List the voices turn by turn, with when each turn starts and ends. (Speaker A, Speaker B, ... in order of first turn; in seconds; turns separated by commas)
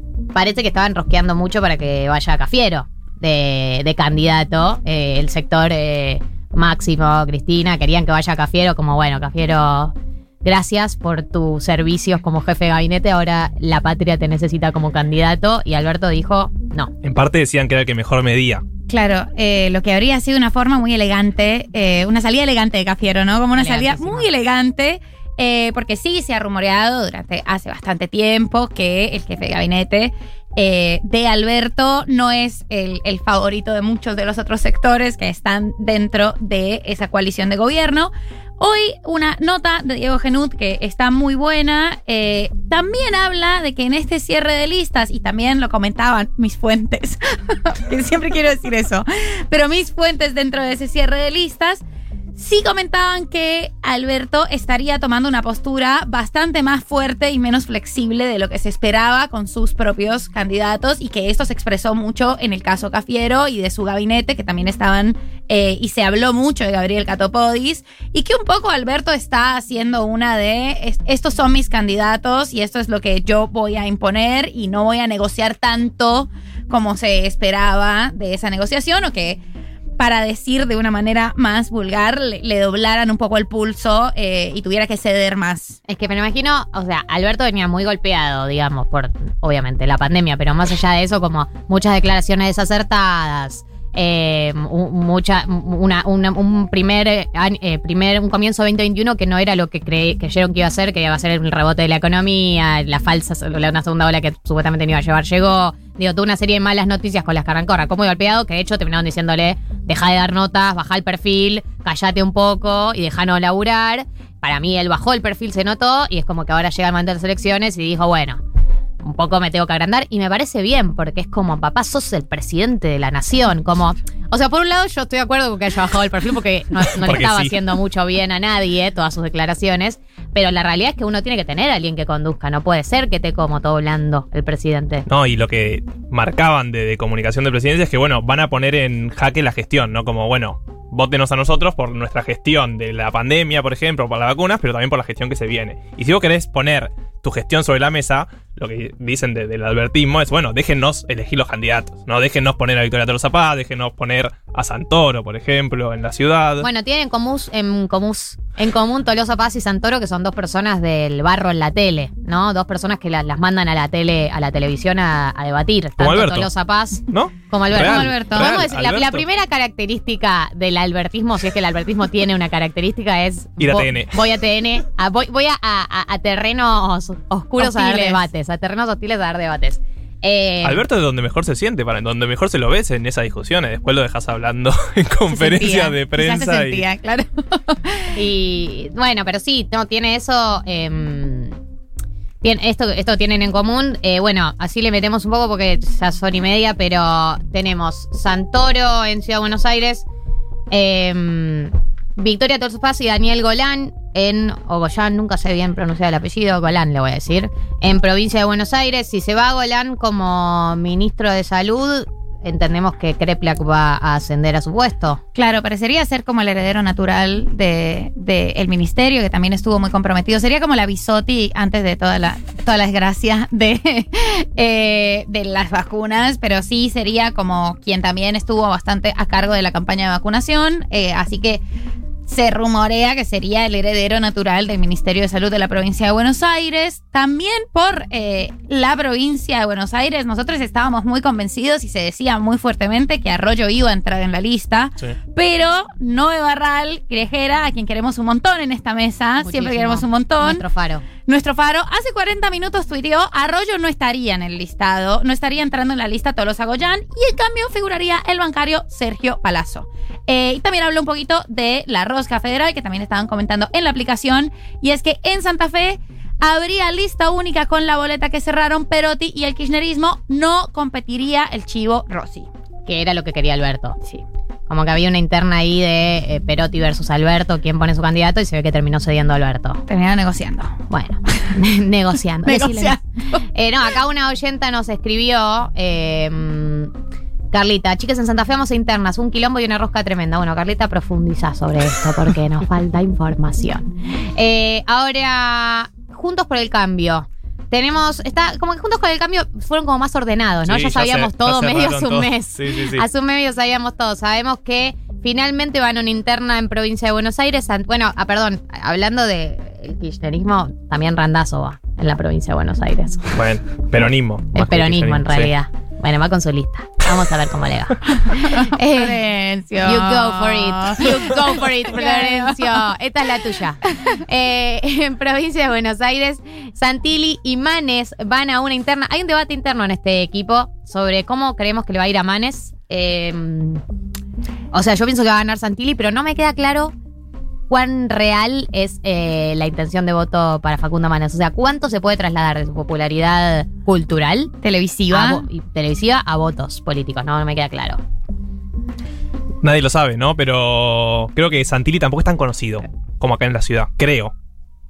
Speaker A: 0.3-16.9, Speaker B: 17.0-18.6, Speaker C: 18.9-51.8, Speaker A: 23.6-24.3, Speaker C: 52.4-79.4, Speaker C: 80.0-85.8, Speaker A: 85.9-118.4, Speaker A: 119.0-135.1, Speaker B: 127.0-127.6, Speaker B: 135.1-156.7, Speaker A: 156.6-180.8, Speaker B: 166.0-166.5, Speaker B: 167.1-169.2, Speaker C: 167.8-168.4, Speaker B: 173.6-174.2, Speaker C: 177.6-178.2, Speaker B: 180.6-186.8, Speaker C: 185.3-188.1, Speaker A: 188.2-191.6, Speaker A: 192.4-200.1, Speaker A: 200.7-215.2, Speaker C: 215.3-231.6, Speaker C: 232.3-250.6, Speaker A: 249.4-251.1, Speaker C: 251.3-272.5, Speaker A: 272.9-274.0, Speaker A: 274.7-279.8, Speaker C: 279.9-280.8, Speaker A: 280.9-286.9, Speaker C: 282.4-283.0, Speaker A: 287.5-313.4, Speaker B: 300.6-303.1, Speaker B: 313.4-315.5, Speaker A: 314.6-319.2, Speaker C: 318.4-322.9, Speaker A: 319.8-333.8, Speaker A: 334.7-336.9, Speaker A: 337.7-344.5, Speaker C: 344.6-345.5, Speaker A: 345.1-348.0, Speaker B: 349.6-354.3